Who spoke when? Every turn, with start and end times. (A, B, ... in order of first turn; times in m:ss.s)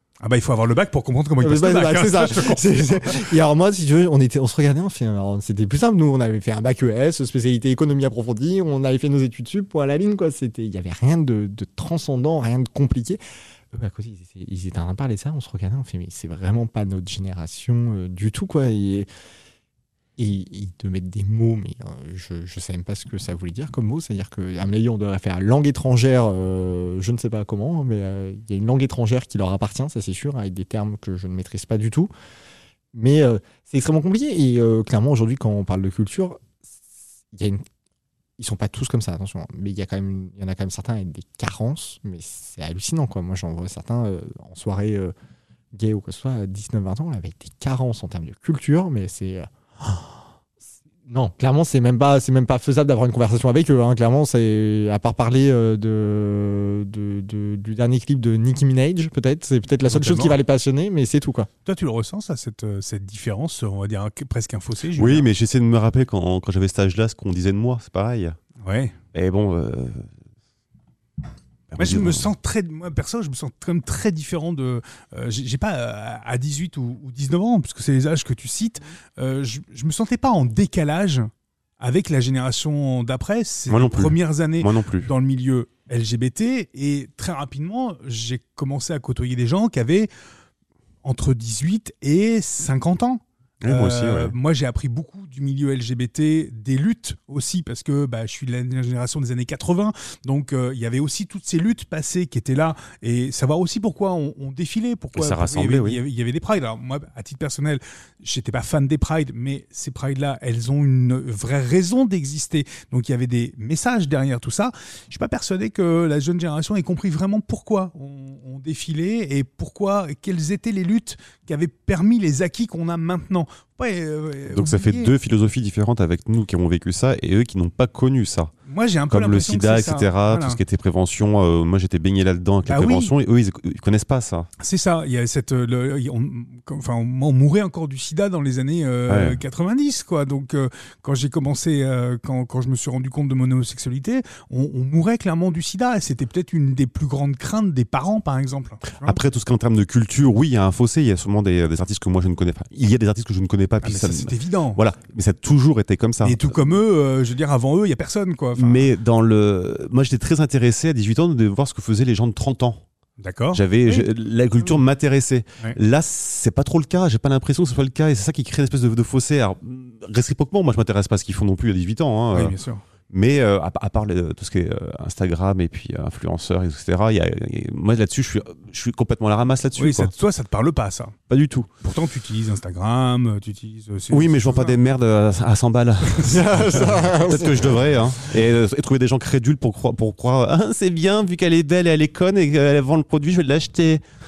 0:00.2-0:03.3 A
0:01.4-0:13.2 B
0:13.7-0:19.1 B
0:20.2-0:32.1 B
0:32.9-0:36.8 B
0:37.3-0:37.6 B
0:38.4-0:45.1 B
0:45.7-0:50.2 B
0:51.1-1:01.5 B
0:59.9-1:00.4 A
1:01.6-1:05.3 A
1:04.9-1:08.4 C
1:08.6-1:09.0 A
1:09.1-1:10.1 C
1:11.7-1:12.3 C
1:11.8-1:30.1 A
1:23.7-1:25.1 C
1:31.0-2:05.1 A
1:33.6-1:34.3 C
1:45.1-1:46.0 C
2:04.5-2:08.5 C
2:08.7-2:10.6 A
2:09.1-2:14.5 C
2:12.6-2:13.1 A
2:14.6-2:29.2 A
2:19.1-2:19.4 C
2:29.0-2:36.6 C
2:33.8-2:34.8 A
2:36.2-2:38.9 A
2:38.6-2:42.8 C
2:43.2-2:44.8 A
2:43.5-2:52.5 C
2:52.3-2:52.8 A
2:53.1-3:00.1 C
2:59.8-3:01.2 A
3:01.3-3:01.7 C
3:01.8-3:04.8 A
3:04.1-3:14.0 C
3:06.2-3:07.9 B